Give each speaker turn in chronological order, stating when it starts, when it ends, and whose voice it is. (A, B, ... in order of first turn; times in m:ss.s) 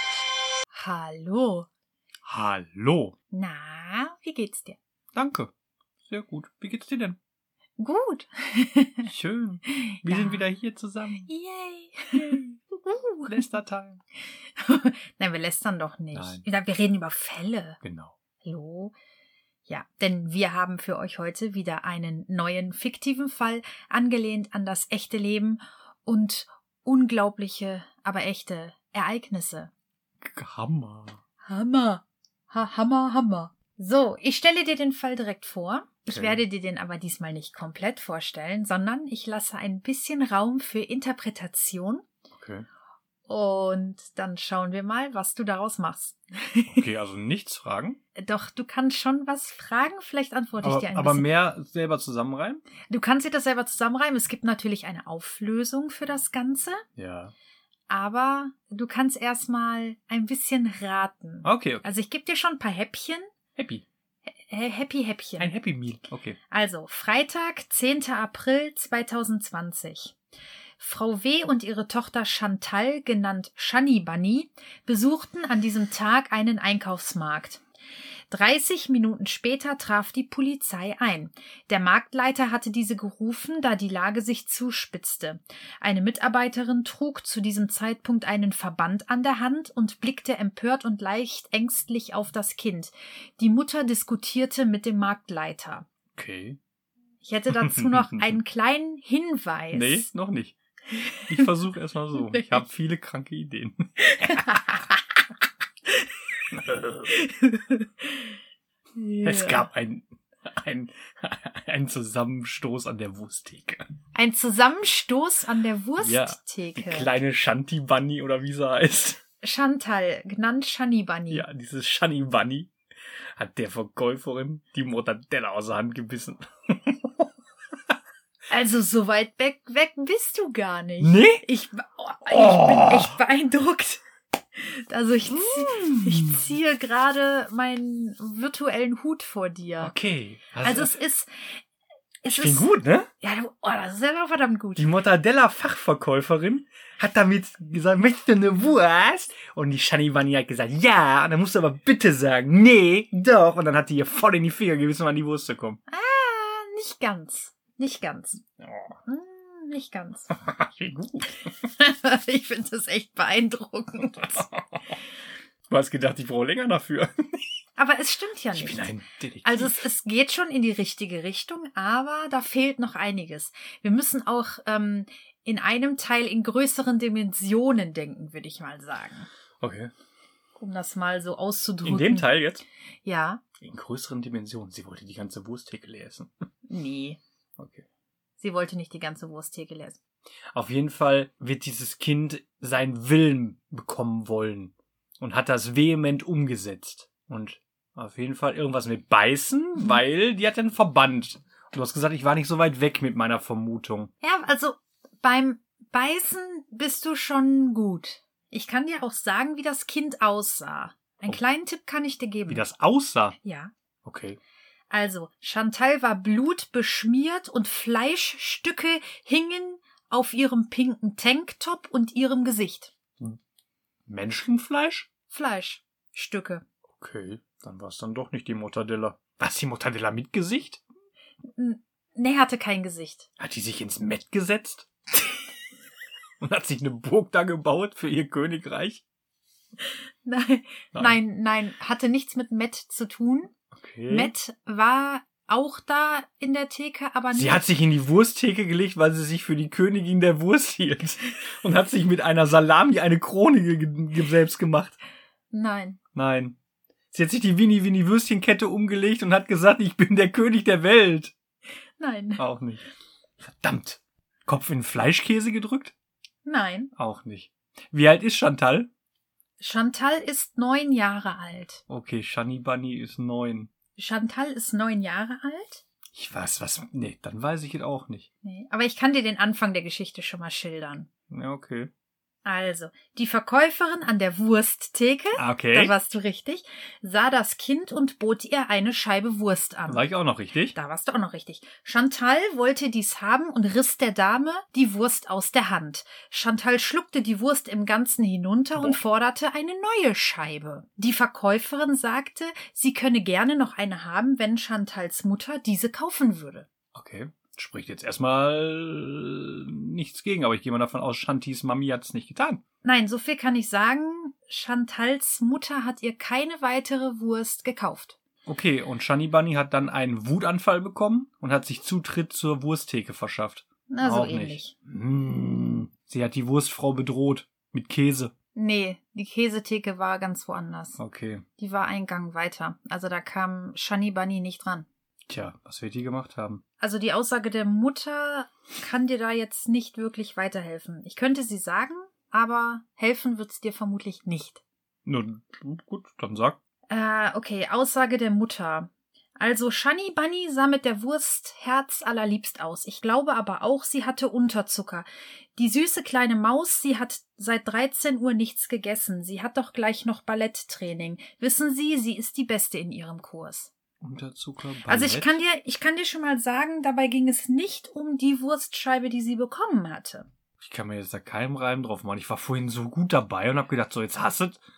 0:00.7-0:01.7 A
0:02.3-0:03.1 B
0:03.3-0:04.8 A
0:05.2-0:05.5 B
0:06.1-0:07.2 B
0:07.8-0:09.1 A
0:09.1-0:11.3 B
0:09.7-0:10.5 A
0:11.2-0:13.3 A
0:13.3-0:14.0 B
0:14.3-0:17.8 A
0:16.1-0:16.4 B
0:17.8-0:18.2 B
0:18.4-0:19.0 A
0:19.7-0:29.7 A
0:30.2-0:31.2 B
0:31.5-0:42.0 A
0:36.1-0:36.4 B
0:42.4-0:42.7 B
0:43.3-0:46.8 A
0:46.7-0:48.0 B
0:48.2-0:51.3 A
0:50.6-0:52.6 B
0:52.9-0:56.8 A
0:57.0-0:57.3 B
0:57.9-1:03.3 A
1:01.4-1:01.9 B
1:03.6-1:03.8 B
1:04.4-1:05.5 A
1:05.4-1:06.4 B
1:06.5-1:10.2 A
1:10.8-1:17.6 A
1:18.3-1:35.9 A
1:36.2-1:36.6 B
1:37.2-1:40.1 A
1:37.6-1:38.3 B
1:39.7-1:40.6 B
1:41.0-1:41.5 A
1:41.3-1:44.4 B
1:42.2-1:42.6 A
1:44.1-1:45.0 A
1:46.5-1:47.1 B
1:47.1-1:48.3 A
1:49.0-1:49.6 A
1:49.2-1:53.9 B
1:54.1-1:57.1 A
1:56.0-1:59.2 B
1:59.4-2:01.4 A
2:01.3-2:02.7 B
2:03.4-2:07.3 B
2:08.5-2:14.0 A
2:11.0-2:11.4 B
2:12.3-2:13.2 B
2:14.6-2:19.9 A
2:15.3-2:16.4 B
2:19.8-2:21.0 B
2:20.6-2:21.6 A
2:22.2-2:22.7 A
2:22.3-2:23.1 B
2:23.2-2:24.8 A
2:24.8-2:35.8 B
2:35.9-2:38.4 A
2:38.6-2:39.0 B
2:39.1-2:40.3 A
2:40.3-2:41.4 B
2:41.6-2:44.4 A
2:44.0-2:45.0 B
2:45.7-2:47.1 B
2:47.8-2:48.9 A
2:48.6-2:49.8 B
2:49.4-2:59.3 A
2:59.6-2:59.9 B
3:00.6-3:02.4 A
3:01.8-3:02.6 B
3:03.0-3:03.4 A
3:03.6-3:06.4 B
3:06.7-3:07.2 A
3:07.6-3:07.9 B
3:08.4-3:10.0 A
3:10.5-3:24.1 B
3:24.2-3:32.6 A
3:32.5-3:33.4 B
3:33.4-3:33.7 A
3:34.0-3:34.4 B
3:34.9-3:42.9 A
3:44.1-3:45.1 B
3:45.3-3:46.6 A
3:46.9-3:50.8 B
3:51.4-3:53.3 A
3:53.4-3:54.9 B
3:56.4-3:59.0 B
4:00.2-4:03.5 A
4:03.8-4:04.3 B
4:04.1-4:07.6 A
4:07.3-4:15.0 B
4:15.5-4:16.0 A
4:16.2-4:16.6 B
4:17.1-4:21.3 B
4:22.0-4:22.4 A
4:22.4-4:22.8 B
4:23.4-4:25.9 B
4:26.4-4:26.9 A
4:27.0-4:28.9 B
4:29.6-4:31.8 A
4:31.9-4:33.7 B
4:34.0-4:35.8 A
4:36.1-4:38.3 B
4:38.4-4:41.1 A
4:41.3-4:41.9 B
4:42.4-4:50.1 A
4:45.4-4:46.0 B
4:49.9-4:50.8 B
4:50.7-5:06.7 A
5:06.9-5:12.6 B
5:12.8-5:18.2 A
5:18.5-5:28.3 B
5:23.9-5:24.7 A
5:28.6-5:31.0 A
5:31.0-5:31.4 B
5:31.6-5:34.9 A
5:35.3-5:36.6 B
5:36.8-5:44.6 A
5:45.0-5:46.6 B
5:46.9-6:03.7 A
6:04.0-6:05.4 B
6:04.9-6:10.3 A
6:10.6-6:14.6 B